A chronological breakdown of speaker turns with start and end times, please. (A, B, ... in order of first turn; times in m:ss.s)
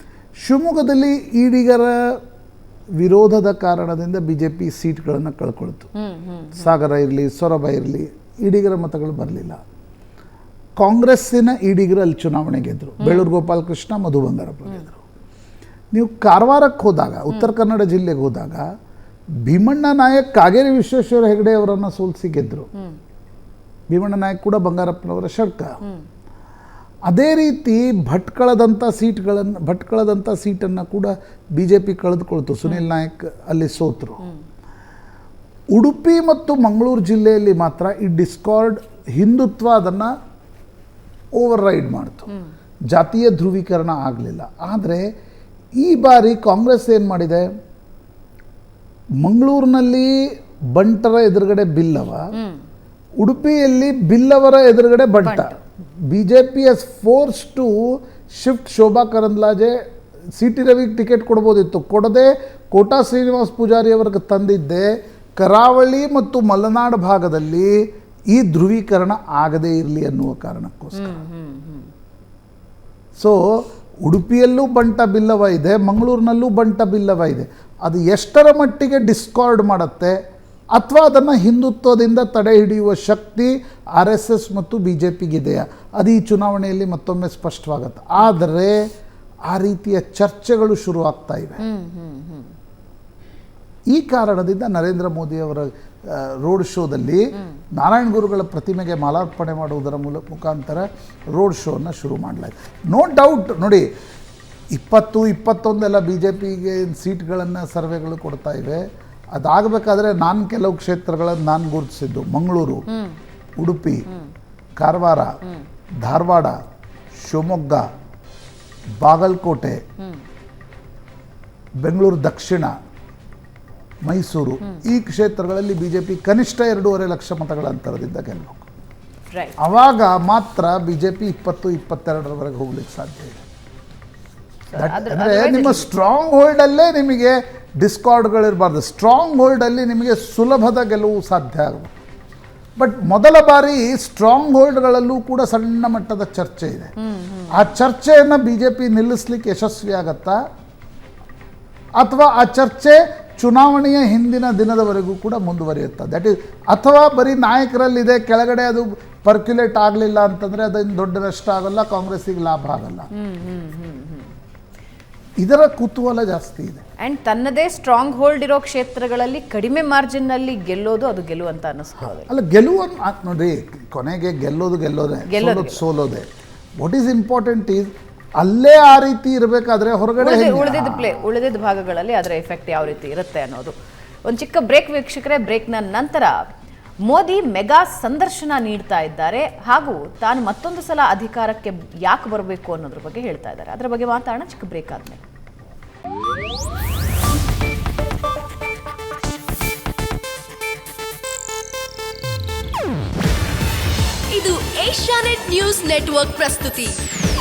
0:00.4-0:02.2 A
0:03.0-0:05.9 A
0:05.9-0:06.7 B
0:06.5-0:09.6 A
0:10.8-0:15.0 A
0:13.0-0:13.2 B
0:15.9-0:18.7 A
0:19.4-0:22.7 A
0:23.9-0:25.8 A
0:27.1-0:34.2 A
0:35.7-0:40.1 A
0:41.4-0:42.3 A
0:42.9-0:45.0 A
0:45.8-0:47.5 A
0:49.2-0:50.2 A
0:50.7-0:52.3 A
0:52.3-0:52.6 B
0:53.2-0:59.8 A
0:55.2-0:55.6 B
1:00.4-1:07.8 A
1:08.3-1:11.2 A
1:10.9-1:11.9 B
1:13.2-1:20.2 A
1:20.7-1:28.8 A
1:29.5-1:31.6 A
1:31.6-1:32.5 B
1:33.9-1:43.9 A
1:44.7-1:48.8 A
1:49.3-1:52.8 A
1:52.9-1:53.2 B
1:53.6-1:54.0 A
1:54.8-1:55.4 A
1:56.0-1:56.6 A
1:57.2-1:57.8 A
1:59.0-1:59.8 A
2:01.8-2:02.7 A
2:04.0-2:08.7 A
2:09.3-2:09.6 B
2:09.6-2:13.4 A
2:14.7-2:15.9 B
2:14.7-2:21.9 A
2:22.8-2:26.9 A
2:27.0-2:27.7 B
2:27.5-2:30.4 A
2:32.0-2:43.1 A
2:43.1-2:44.3 B
2:45.4-2:46.8 A
2:47.0-2:52.3 B
2:52.3-2:56.3 A
2:55.3-2:55.8 B
2:56.8-3:01.2 A
3:00.2-3:03.7 B
3:04.2-3:06.4 B
3:07.0-3:15.2 B
3:24.3-3:27.0 C